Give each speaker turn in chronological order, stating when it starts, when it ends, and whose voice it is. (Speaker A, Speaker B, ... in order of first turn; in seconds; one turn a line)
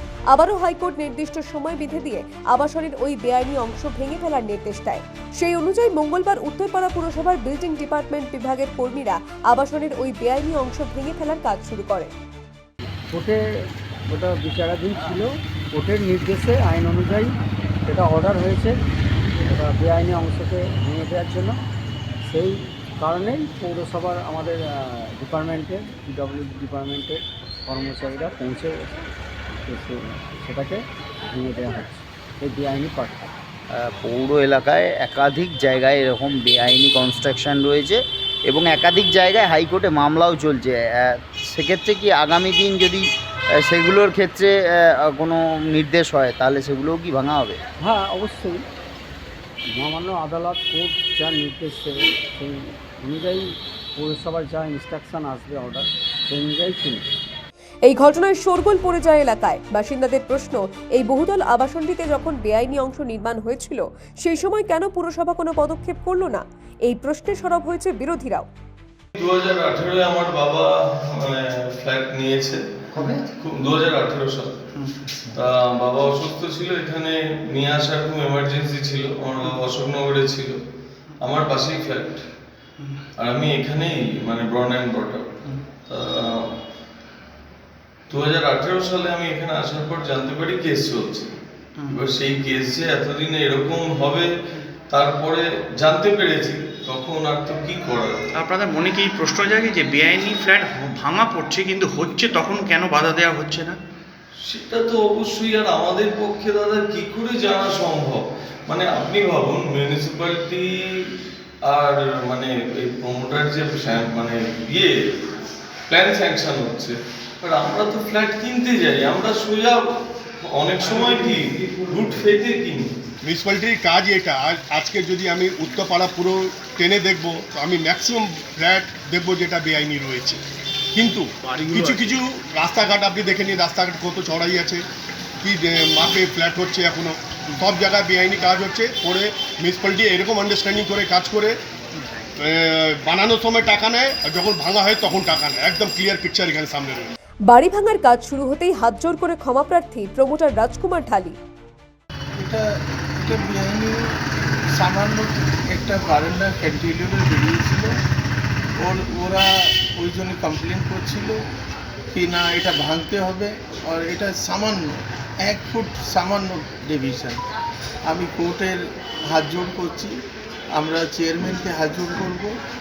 Speaker A: 0.3-12.1
Speaker B: 13.1-13.4
Speaker B: 14.1-17.4
Speaker B: 17.9-18.8
Speaker B: 19.5-21.6
Speaker B: 22.3-28.9
Speaker B: 29.6-33.3
Speaker C: 33.7-43.1
Speaker C: 43.6-47.6
Speaker B: 47.8-48.6
Speaker B: 49.8-57.0
Speaker A: 57.9-68.5
Speaker D: 69.2-72.6
Speaker D: 73.3-74.7
Speaker D: 75.3-80.6
Speaker D: 81.2-82.2
Speaker D: 83.2-86.5
Speaker D: 88.1-91.3
Speaker D: 91.9-94.3
Speaker D: 94.9-98.2
Speaker E: 98.3-103.8
Speaker D: 104.5-111.1
Speaker D: 111.7-115.0
Speaker D: 115.9-119.9
Speaker D: 120.5-122.9
Speaker F: 123.2-130.4
Speaker F: 130.9-134.8
Speaker F: 135.4-141.5
Speaker F: 142.4-147.1
Speaker A: 147.5-151.4
Speaker G: 152.4-152.7
Speaker G: 153.2-154.0
Speaker G: 154.8-157.9
Speaker G: 158.8-161.4
Speaker G: 162.1-167.4
Speaker G: 168.1-170.2
Speaker G: 170.8-172.5